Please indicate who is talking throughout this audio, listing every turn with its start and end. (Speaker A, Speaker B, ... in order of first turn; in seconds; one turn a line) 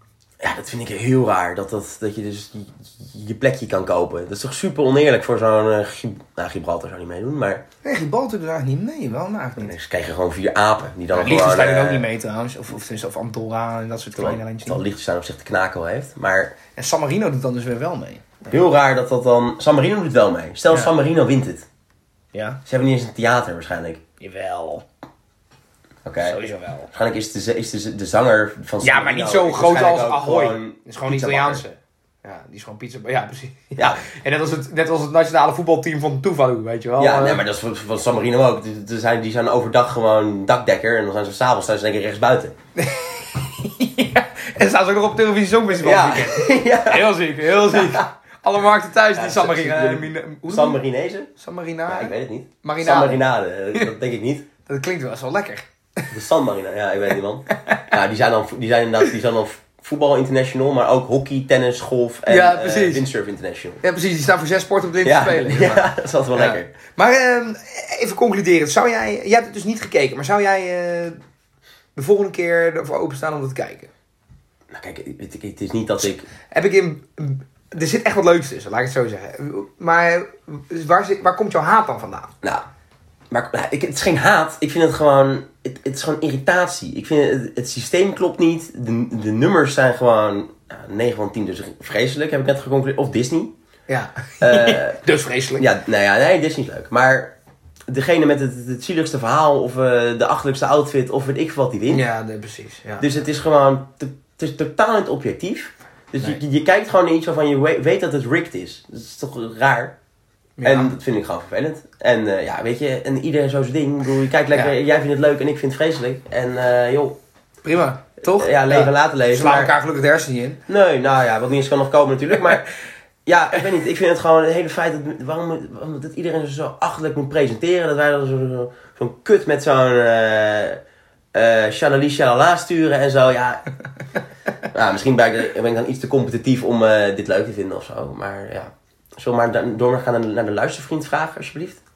Speaker A: 0.4-7.6
Speaker B: 7.8-9.7
Speaker A: 9.6-12.1
Speaker B: 11.1-14.8
Speaker A: 14.2-16.5
Speaker B: 16.8-18.6
Speaker A: 18.5-21.7
Speaker B: 22.3-22.6
Speaker A: 22.6-24.0
Speaker B: 24.2-24.8
Speaker A: 26.0-26.4
Speaker B: 26.2-26.9
Speaker A: 26.9-31.6
Speaker B: 28.8-37.4
Speaker A: 37.0-42.5
Speaker B: 42.8-50.8
Speaker A: 45.8-48.0
Speaker A: 49.1-51.3
Speaker B: 51.4-53.9
Speaker A: 51.9-54.5
Speaker B: 54.6-56.1
Speaker A: 56.1-63.8
Speaker B: 62.3-63.0
Speaker B: 63.8-71.2
Speaker A: 65.0-66.7
Speaker B: 72.0-73.9
Speaker A: 74.7-76.3
Speaker B: 76.5-82.3
Speaker A: 83.3-93.5
Speaker B: 93.9-95.6
Speaker A: 94.4-95.0
Speaker A: 95.6-97.3
Speaker A: 97.9-102.0
Speaker B: 101.9-103.1
Speaker A: 103.0-110.0
Speaker B: 110.6-110.9
Speaker A: 110.6-117.2
Speaker B: 117.6-120.6
Speaker A: 118.2-119.7
Speaker A: 120.7-122.7
Speaker A: 123.2-130.8
Speaker A: 131.3-133.6
Speaker A: 134.7-141.8